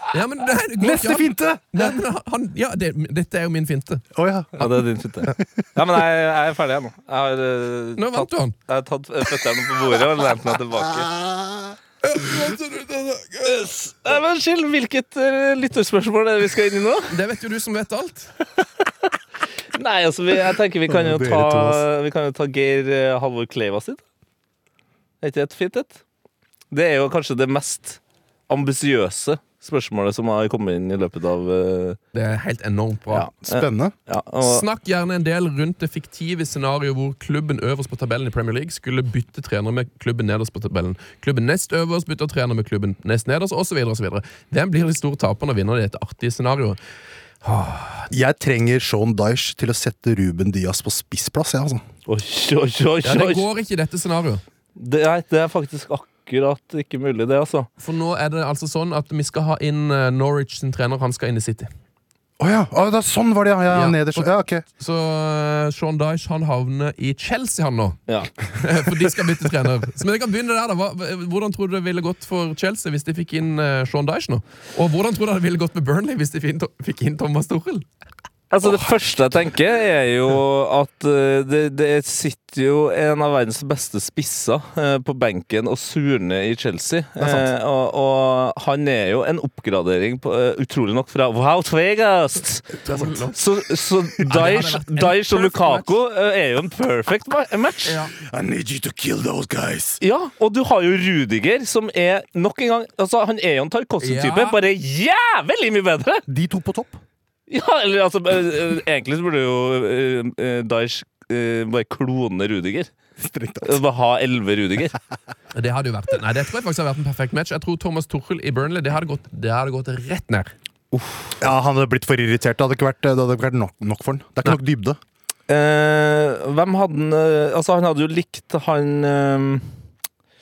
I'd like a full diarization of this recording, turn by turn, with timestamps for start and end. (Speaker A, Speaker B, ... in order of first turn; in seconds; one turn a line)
Speaker A: 0.1-4.0
Speaker B: 0.8-1.9
Speaker B: 4.2-4.7
Speaker C: 4.6-11.1
Speaker A: 8.0-8.6
Speaker B: 10.8-11.8
Speaker A: 12.0-13.5
Speaker C: 13.4-17.1
Speaker A: 17.1-18.3
Speaker C: 19.8-24.0
Speaker B: 20.9-21.9
Speaker C: 25.2-26.0
Speaker C: 26.7-32.0
Speaker A: 32.1-33.3
Speaker C: 33.1-34.6
Speaker B: 33.5-33.9
Speaker A: 34.4-46.8
Speaker A: 47.4-48.1
Speaker B: 48.1-51.8
Speaker C: 52.1-53.5
Speaker A: 53.0-54.4
Speaker C: 54.8-57.7
Speaker A: 57.8-61.7
Speaker B: 62.4-64.6
Speaker A: 63.7-77.8
Speaker C: 78.5-92.8
Speaker B: 87.2-87.5
Speaker A: 92.8-93.4
Speaker C: 93.3-98.0
Speaker A: 94.2-95.9
Speaker A: 97.8-98.1
Speaker B: 98.2-100.0
Speaker C: 100.0-106.2
Speaker A: 104.0-104.6
Speaker B: 106.3-107.0
Speaker C: 107.5-112.9
Speaker B: 113.2-113.8
Speaker C: 113.6-115.0
Speaker A: 115.5-120.5
Speaker C: 120.9-121.4
Speaker B: 121.4-125.0
Speaker C: 125.5-129.7